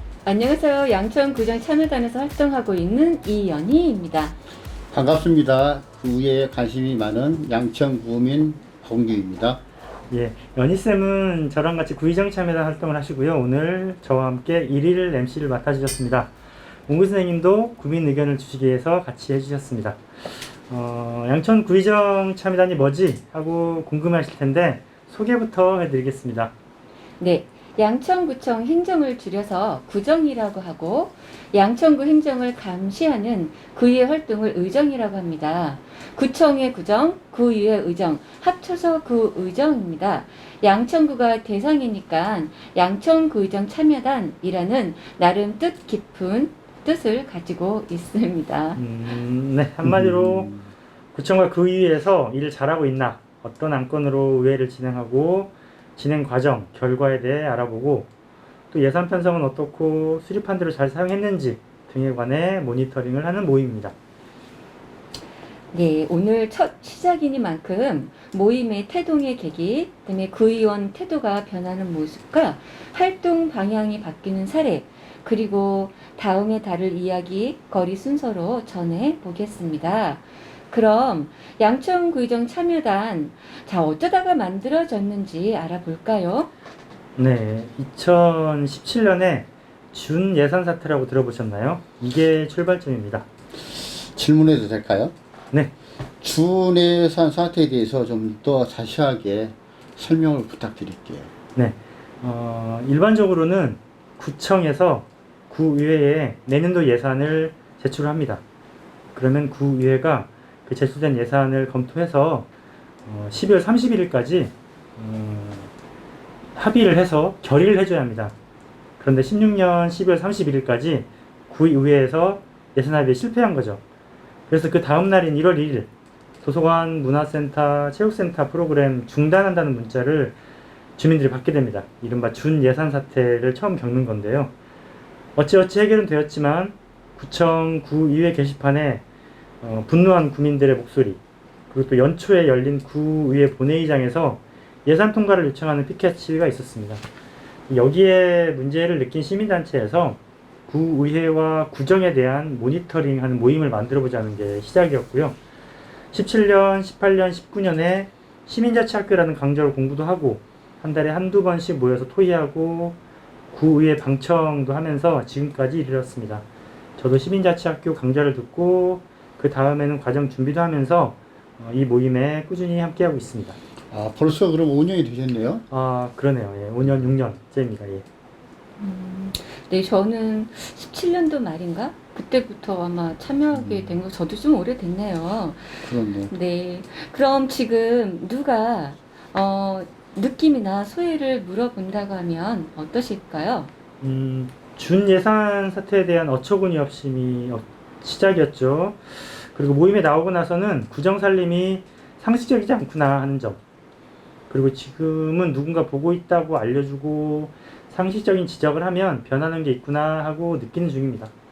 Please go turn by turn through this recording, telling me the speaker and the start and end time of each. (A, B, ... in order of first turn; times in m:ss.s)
0:00.2-0:04.3 A
0:04.9-0:09.6 B
0:10.1-0:16.3 C
0:16.9-0:26.5 C
0:27.2-0:48.8 A
0:48.8-0:50.5 C
0:49.8-0:50.7 B
0:51.1-0:58.1 C
0:58.7-1:03.9 C
1:05.7-1:26.5 A
1:27.2-1:33.2 C
1:34.0-1:35.1 B
1:36.2-1:41.3 B
1:41.5-1:48.4 C
1:49.1-1:52.5 C
1:53.0-1:55.7 C
1:56.6-1:58.3 C
1:59.0-2:03.8 C
2:04.5-2:05.9 C
2:06.4-2:10.4 C
2:11.0-2:14.5 C
2:15.4-2:19.0 C
2:19.6-2:21.2 C
2:21.7-2:27.0 C
2:27.7-2:35.4 C
2:36.1-2:43.0 C
2:43.5-2:46.4 C
2:47.0-2:53.6 C
2:53.9-2:55.6 B
2:55.7-2:58.0 C
2:58.8-3:13.7 A
3:03.5-3:03.9 B
3:05.9-3:06.3 B
3:14.0-3:23.6 C
3:24.5-3:31.3 C